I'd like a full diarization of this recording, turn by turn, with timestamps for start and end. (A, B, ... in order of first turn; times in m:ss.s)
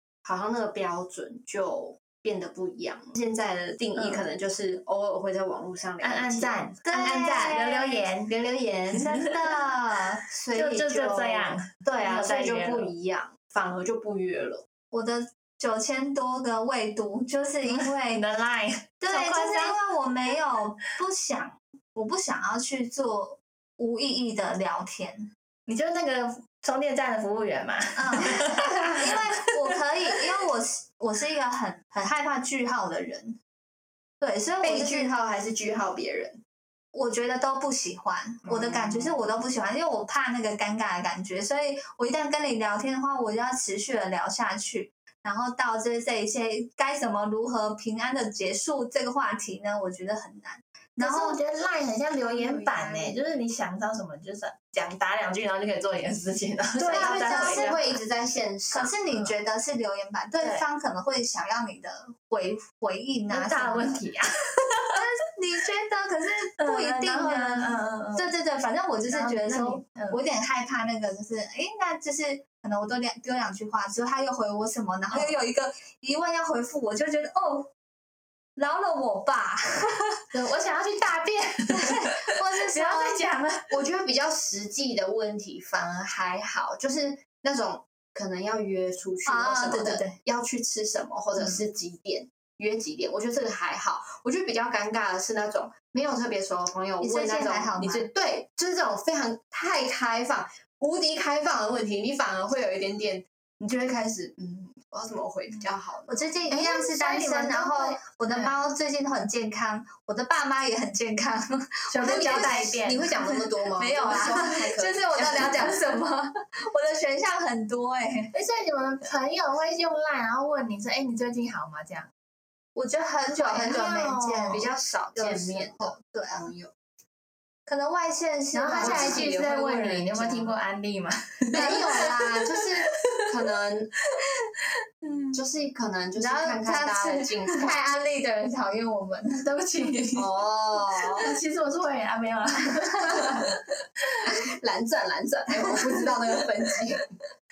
0:00.2-0:09.1 A
0:06.0-0:08.3 B
0:06.9-0:08.1 C
0:08.9-0:11.4 C
0:10.5-0:12.9 B
0:10.8-0:14.6 A
0:14.9-0:18.2 C
0:17.7-0:19.8 B
0:19.0-0:25.3 C
0:25.7-0:29.5 B
0:28.0-0:33.4 C
0:34.2-0:35.2 C
0:34.6-0:36.4 A
0:36.9-0:51.4 C
0:38.4-0:39.2 A
0:51.0-0:57.8 B
0:52.4-0:53.2 A
0:52.5-0:53.0 C
0:56.8-0:58.9 A
0:56.8-0:57.8 C
0:58.7-1:04.0 C
0:59.1-0:59.4 B
1:00.4-1:00.6 B
1:03.3-1:05.0 B
1:05.0-1:17.7 C
1:06.6-1:08.3 B
1:09.1-1:10.2 B
1:18.6-1:20.2 C
1:20.3-1:23.7 B
1:21.7-1:23.2 C
1:23.7-1:48.5 A
1:29.3-1:30.2 C
1:37.0-1:38.1 C
1:46.1-1:58.3 C
1:51.9-1:53.1 B
1:52.0-1:55.7 A
1:58.3-2:02.1 B
2:02.8-2:06.5 C
2:03.4-2:04.6 B
2:04.4-2:06.7 A
2:07.7-2:09.5 C
2:08.5-2:11.9 B
2:08.8-2:10.5 A
2:11.5-2:13.9 A
2:11.5-2:12.3 C
2:15.3-2:17.8 A
2:16.2-2:19.9 C
2:19.4-2:20.3 B
2:20.2-2:21.3 A
2:21.2-2:23.6 B
2:24.2-2:27.1 A